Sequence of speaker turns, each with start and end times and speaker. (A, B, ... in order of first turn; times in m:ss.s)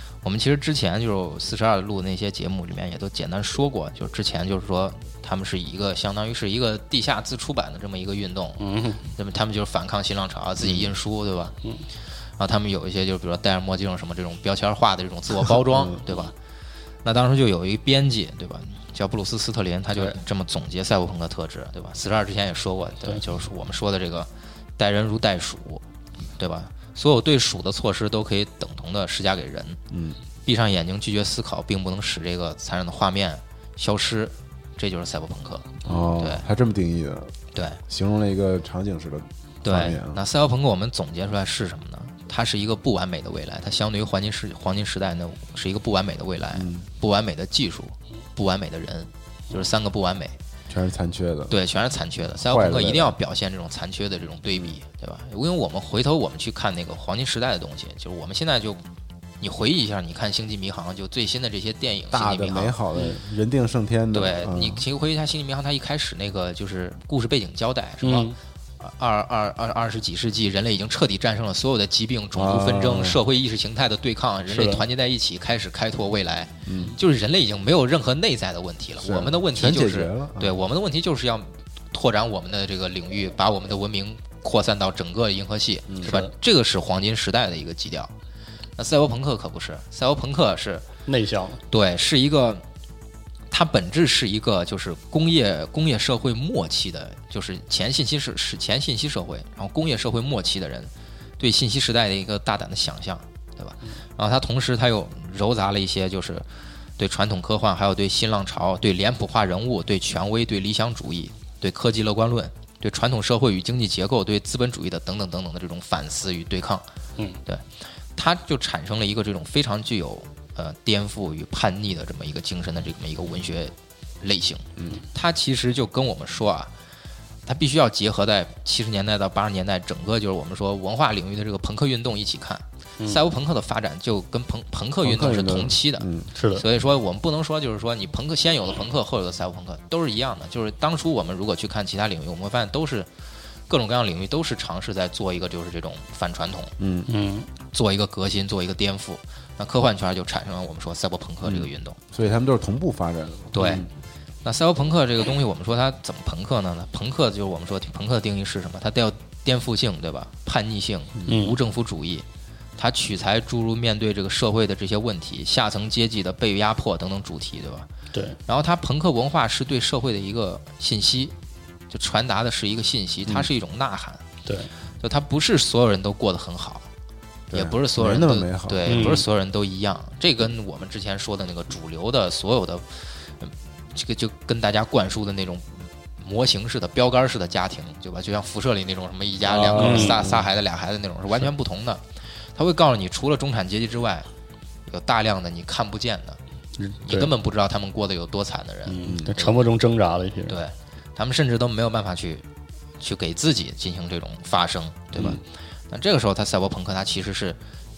0:00.2-0:11.6 A
0:08.6-0:09.0 B
0:10.6-0:10.9 C
0:12.4-0:16.4 A
0:15.7-0:16.0 C
0:17.0-0:25.8 A
0:26.4-0:29.8 A
0:29.9-0:30.2 C
0:30.4-0:36.4 A
0:35.8-0:37.3 C
0:37.5-0:37.8 A
0:37.9-0:40.2 C
0:39.6-0:50.4 A
0:46.6-0:46.9 C
0:50.7-0:51.6 C
0:51.5-0:58.8 A
0:52.4-0:53.2 C
0:59.4-1:02.8 A
1:02.1-1:04.8 C
1:04.1-1:28.1 A
1:08.0-1:08.4 B
1:12.3-1:13.2 C
1:14.5-1:14.8 B
1:16.7-1:17.0 C
1:19.0-1:20.6 C
1:26.0-1:26.3 B
1:28.8-1:30.9 A
1:31.1-1:31.6 B
1:31.7-1:32.6 A
1:33.5-1:46.5 A
1:47.0-1:56.9 A
1:57.5-2:06.7 A
2:07.5-2:23.1 A
2:15.0-2:16.3 C
2:16.4-2:16.6 B
2:23.7-2:26.7 A
2:26.8-2:27.1 C
2:27.1-2:27.5 B
2:27.7-2:32.0 A
2:31.4-2:33.9 C
2:33.5-2:33.9 A
2:34.4-2:42.2 A
2:41.3-2:41.6 B
2:42.8-2:47.9 A
2:48.1-2:48.4 B
2:48.5-2:51.3 A
2:51.9-2:54.2 A
2:54.4-2:54.7 B
2:55.0-2:56.9 A
2:57.5-2:59.1 C
2:57.5-3:14.3 A
2:58.9-2:59.3 B
3:09.4-3:10.5 C
3:09.7-3:10.3 B
3:14.9-3:16.4 A
3:16.8-3:17.3 B
3:17.0-3:19.6 A
3:18.9-3:20.6 B
3:19.0-3:19.3 C
3:20.5-3:22.5 A
3:23.0-3:27.6 A